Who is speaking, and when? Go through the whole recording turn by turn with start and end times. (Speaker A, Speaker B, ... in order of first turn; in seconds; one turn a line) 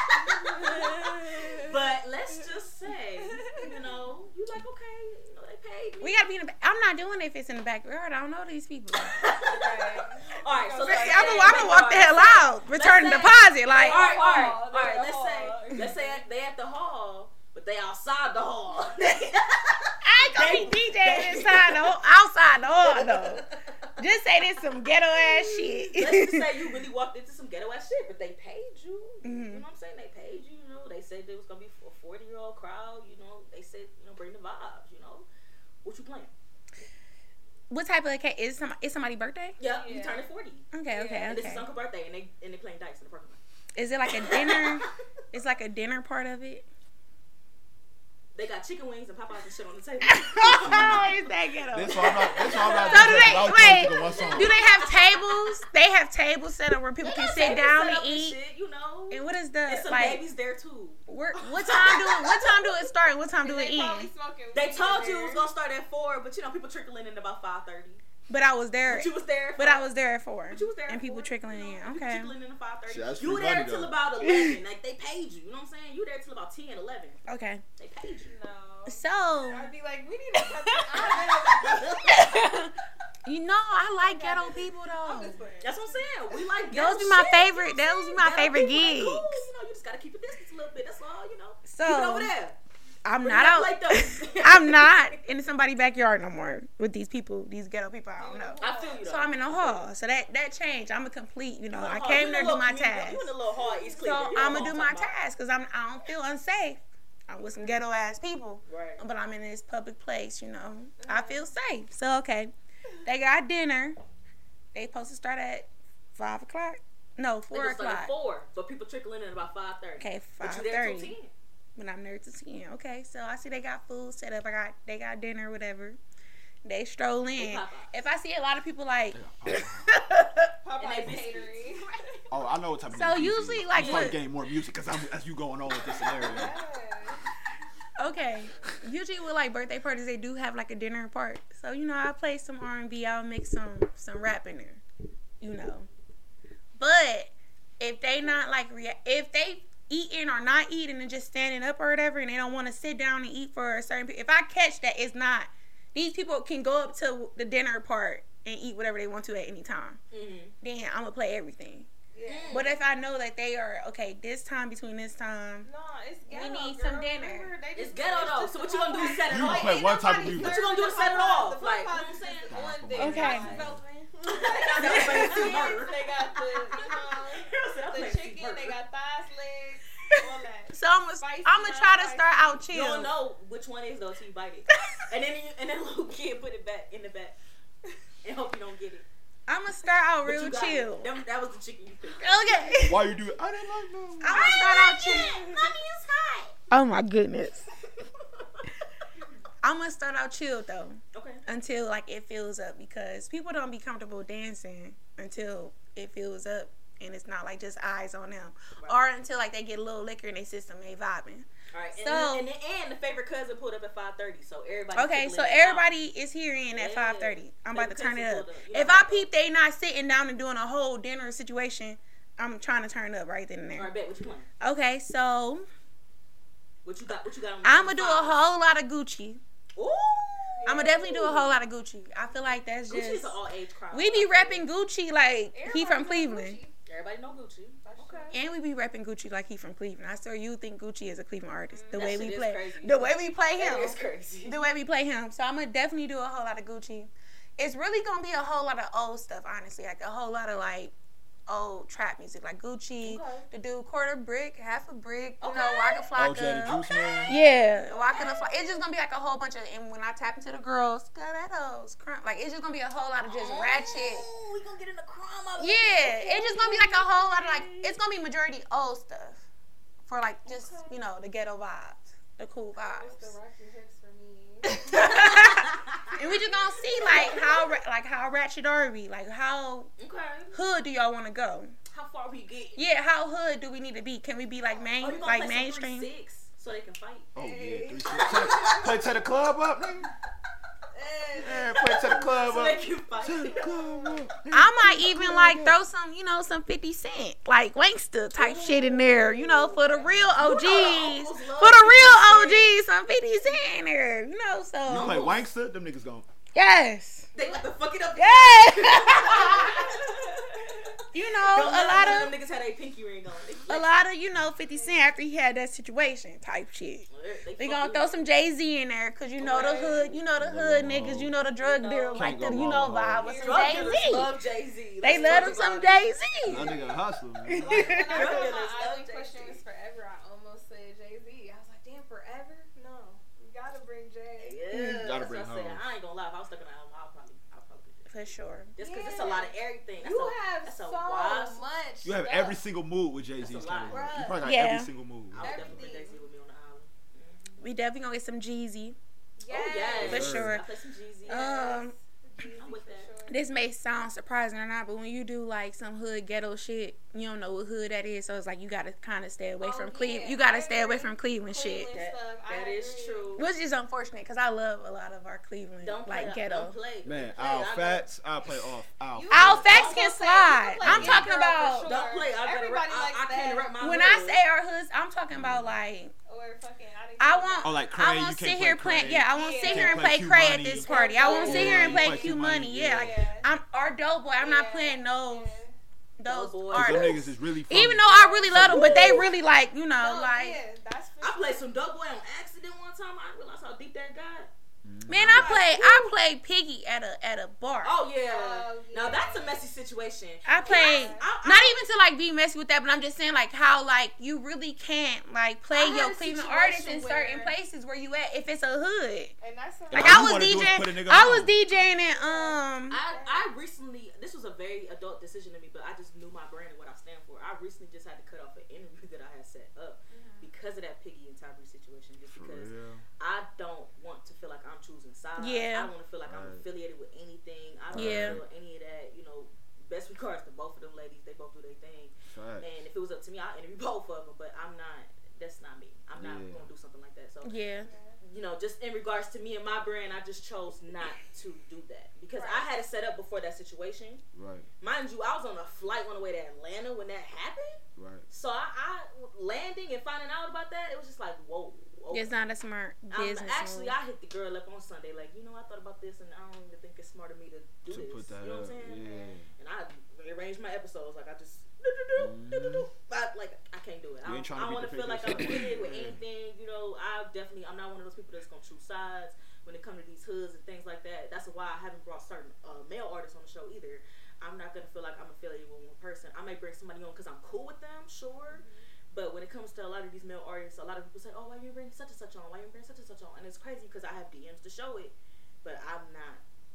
Speaker A: 0.2-6.2
Speaker B: 0.4-1.7
Speaker B: 3.3-3.7
Speaker C: 6.0-9.2
Speaker A: 9.0-22.1
Speaker B: 9.4-16.2
Speaker C: 10.8-14.5
Speaker C: 20.0-26.6
Speaker A: 22.7-35.3
Speaker C: 29.2-29.6
Speaker A: 35.8-36.3
Speaker C: 37.7-39.6
Speaker A: 39.6-40.7
Speaker B: 39.6-40.2
Speaker C: 40.7-41.7
Speaker B: 40.9-41.4
Speaker A: 41.3-43.4
Speaker C: 43.8-46.7
Speaker A: 44.2-44.9
Speaker A: 48.4-51.3
Speaker C: 50.1-58.4
Speaker D: 50.6-51.2
Speaker D: 51.7-54.6
Speaker A: 51.9-55.6
Speaker A: 57.0-62.9
Speaker C: 59.1-60.2
Speaker C: 61.1-64.1
Speaker B: 63.4-65.5
Speaker A: 64.5-68.0
Speaker C: 68.3-72.3
Speaker A: 68.9-69.9
Speaker A: 70.5-77.2
Speaker D: 72.9-74.0
Speaker C: 74.2-74.6
Speaker C: 77.3-77.6
Speaker A: 77.8-78.3
Speaker B: 78.2-82.3
Speaker C: 78.9-79.7
Speaker C: 80.4-82.7
Speaker A: 81.1-82.4
Speaker C: 83.2-85.4
Speaker B: 84.0-86.0
Speaker A: 85.6-92.6
Speaker C: 86.7-89.4
Speaker C: 91.7-92.3
Speaker C: 93.0-103.3
Speaker A: 93.2-95.2
Speaker B: 98.2-99.1
Speaker A: 98.6-99.9
Speaker A: 101.7-105.2
Speaker B: 103.6-104.7
Speaker C: 104.0-112.5
Speaker A: 108.7-109.0
Speaker B: 111.0-111.5
Speaker C: 113.0-114.0
Speaker C: 114.7-118.1
Speaker A: 117.5-121.3
Speaker C: 120.0-121.2
Speaker C: 121.8-126.0
Speaker C: 126.7-130.5
Speaker A: 127.4-127.9
Speaker D: 129.1-129.9
Speaker B: 130.6-132.3
Speaker A: 130.8-131.8
Speaker D: 132.3-136.6
Speaker C: 132.9-134.2
Speaker A: 133.7-134.2
Speaker B: 136.2-137.2
Speaker C: 138.0-144.8
Speaker C: 145.4-145.9
Speaker C: 146.8-160.0
Speaker A: 160.1-160.5
Speaker C: 160.6-161.9
Speaker B: 162.1-162.7
Speaker A: 162.3-162.7
Speaker C: 162.5-165.7
Speaker B: 165.6-182.5
Speaker C: 166.3-167.5
Speaker A: 167.8-172.6
Speaker D: 169.3-170.6
Speaker D: 172.5-173.8
Speaker C: 173.0-173.6
Speaker A: 174.2-178.8
Speaker C: 174.8-175.8
Speaker C: 180.7-183.1
Speaker A: 182.7-187.4
Speaker A: 188.2-189.1
Speaker C: 189.5-191.1
Speaker A: 190.2-192.8
Speaker C: 192.2-193.1
Speaker D: 192.8-194.6
Speaker C: 194.2-195.5
Speaker A: 194.2-196.6
Speaker C: 196.7-197.7
Speaker C: 199.6-212.5
Speaker A: 201.1-201.4
Speaker A: 208.8-209.0
Speaker A: 211.7-215.9
Speaker C: 214.9-223.9
Speaker A: 216.7-219.3
Speaker A: 223.8-224.5
Speaker C: 224.6-225.7
Speaker A: 226.8-228.4
Speaker C: 227.6-229.4
Speaker A: 229.8-231.1
Speaker B: 230.5-231.6
Speaker C: 230.7-233.4
Speaker A: 232.9-234.7
Speaker C: 233.9-236.6
Speaker B: 235.5-236.7
Speaker A: 236.9-238.4
Speaker B: 237.8-238.4
Speaker C: 238.3-250.9
Speaker B: 241.7-242.1
Speaker A: 241.9-244.6
Speaker C: 251.5-264.2
Speaker A: 253.0-253.5
Speaker A: 255.4-256.1
Speaker D: 256.2-257.3
Speaker A: 256.6-258.5
Speaker A: 263.3-268.0
Speaker C: 265.6-269.4
Speaker C: 270.1-273.4
Speaker B: 270.5-271.0
Speaker B: 272.8-275.2
Speaker C: 274.7-279.9
Speaker A: 274.9-276.4
Speaker B: 276.3-276.6
Speaker A: 277.0-277.7
Speaker A: 280.0-280.6
Speaker C: 280.5-281.7
Speaker A: 281.9-282.8
Speaker C: 282.8-286.1
Speaker A: 285.0-287.3
Speaker D: 287.4-290.1
Speaker B: 287.4-289.0
Speaker B: 290.9-292.2
Speaker D: 291.4-295.8
Speaker A: 291.4-293.7
Speaker B: 293.5-294.1
Speaker C: 294.5-305.4
Speaker B: 298.4-300.1
Speaker D: 300.1-300.4
Speaker A: 300.4-302.8
Speaker D: 304.9-306.3
Speaker A: 304.9-305.4
Speaker C: 306.6-307.3
Speaker A: 307.3-314.0
Speaker C: 308.2-309.9
Speaker B: 309.4-309.8
Speaker C: 311.1-312.3
Speaker C: 313.7-324.4
Speaker B: 314.7-315.1
Speaker A: 317.1-318.2
Speaker A: 319.4-320.1
Speaker B: 319.4-320.1
Speaker D: 320.4-321.3
Speaker A: 321.6-322.3
Speaker D: 322.2-323.3
Speaker B: 323.2-324.1
Speaker A: 323.4-326.1
Speaker C: 325.0-326.7
Speaker B: 325.1-325.6
Speaker D: 326.4-328.1
Speaker B: 326.5-327.0
Speaker C: 327.4-328.5
Speaker B: 327.5-334.6
Speaker A: 328.1-329.6
Speaker A: 334.4-338.1
Speaker C: 334.7-335.1
Speaker D: 334.9-335.8
Speaker C: 338.1-338.7
Speaker A: 338.8-341.6
Speaker B: 338.8-342.6
Speaker D: 342.0-345.9
Speaker A: 343.4-344.3
Speaker B: 343.9-344.5
Speaker C: 344.4-344.9
Speaker A: 345.3-347.6
Speaker B: 345.4-346.2
Speaker C: 347.6-349.0
Speaker B: 349.4-350.3
Speaker A: 349.5-351.5
Speaker C: 350.0-350.7
Speaker D: 350.0-350.6
Speaker C: 351.3-351.9
Speaker B: 351.3-353.4
Speaker A: 352.5-353.1
Speaker C: 353.3-361.9
Speaker B: 359.6-363.4
Speaker A: 361.9-363.5
Speaker C: 363.4-366.8
Speaker A: 365.8-368.1
Speaker D: 367.0-369.9
Speaker B: 369.1-373.8
Speaker C: 369.3-371.9
Speaker A: 369.7-370.3
Speaker D: 370.8-371.3
Speaker A: 371.8-374.4
Speaker C: 373.8-376.1
Speaker D: 375.3-375.8
Speaker B: 376.3-377.8
Speaker C: 377.2-385.6
Speaker D: 377.6-383.2
Speaker B: 379.3-380.1
Speaker B: 380.7-382.4
Speaker A: 380.9-381.9
Speaker B: 382.9-383.5
Speaker B: 384.4-385.8
Speaker C: 386.2-390.6
Speaker A: 386.2-387.2
Speaker D: 386.7-389.3
Speaker B: 388.1-389.3
Speaker A: 388.8-389.3
Speaker B: 390.0-391.6
Speaker A: 391.2-394.5
Speaker D: 394.8-395.6
Speaker C: 395.1-397.9
Speaker A: 395.2-396.1
Speaker A: 397.8-401.8
Speaker B: 398.2-399.7
Speaker C: 400.5-409.3
Speaker B: 400.5-401.3
Speaker B: 405.7-407.5
Speaker B: 409.4-410.8
Speaker C: 409.9-413.0
Speaker D: 409.9-411.6
Speaker B: 411.7-413.5
Speaker A: 412.9-437.6
Speaker B: 420.1-420.5
Speaker D: 422.3-423.0
Speaker C: 425.4-425.9
Speaker D: 426.3-426.6
Speaker D: 427.9-428.4
Speaker C: 427.9-428.4
Speaker D: 432.3-432.7
Speaker D: 436.2-436.7
Speaker C: 437.4-437.9
Speaker B: 437.8-438.2
Speaker A: 438.2-444.2
Speaker B: 442.3-442.7
Speaker D: 444.3-444.7
Speaker A: 444.8-452.4
Speaker D: 448.0-448.3
Speaker C: 452.1-454.0
Speaker A: 453.1-486.4
Speaker D: 457.9-459.5
Speaker D: 462.2-462.9
Speaker D: 464.2-466.2
Speaker B: 478.5-478.9